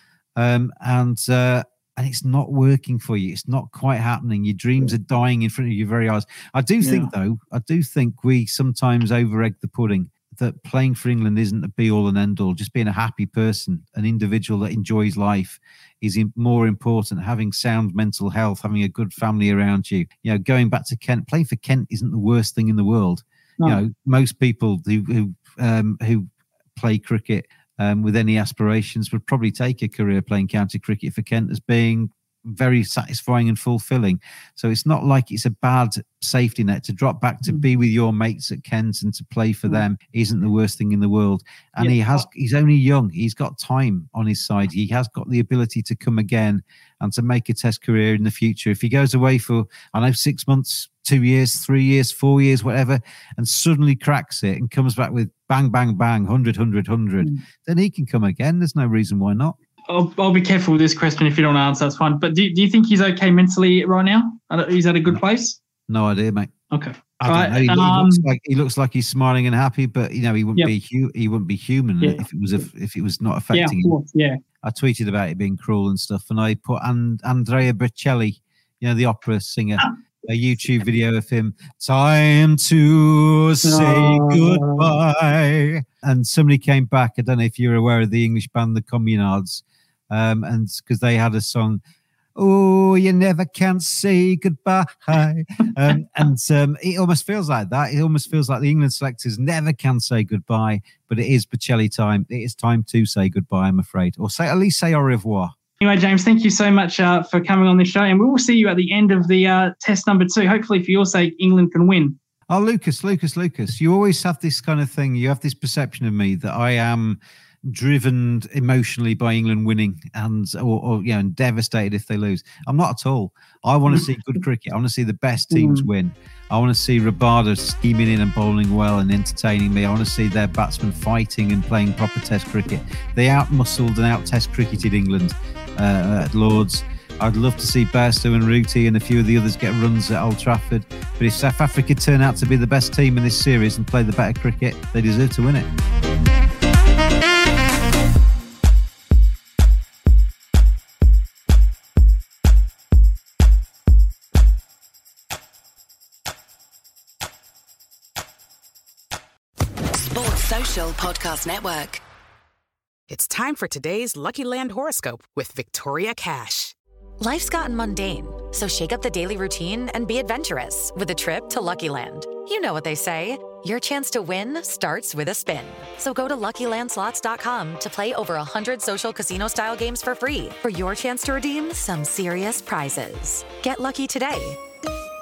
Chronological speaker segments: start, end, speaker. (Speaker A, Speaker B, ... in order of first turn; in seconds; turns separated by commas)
Speaker A: 0.4-59.6, Speaker B: 6.8-7.1, Speaker B: 41.8-42.3, Speaker B: 59.9-65.6, Speaker A: 65.9-66.5, Speaker B: 66.7-68.2, Speaker A: 67.2-74.0, Speaker B: 73.5-74.4, Speaker A: 74.6-91.8, Speaker B: 83.6-84.9, Speaker A: 92.4-105.5, Speaker B: 105.8-112.2, Speaker A: 112.5-145.7, Speaker B: 125.5-125.9, Speaker C: 160.1-162.0, Speaker D: 163.1-166.8, Speaker E: 167.2-184.6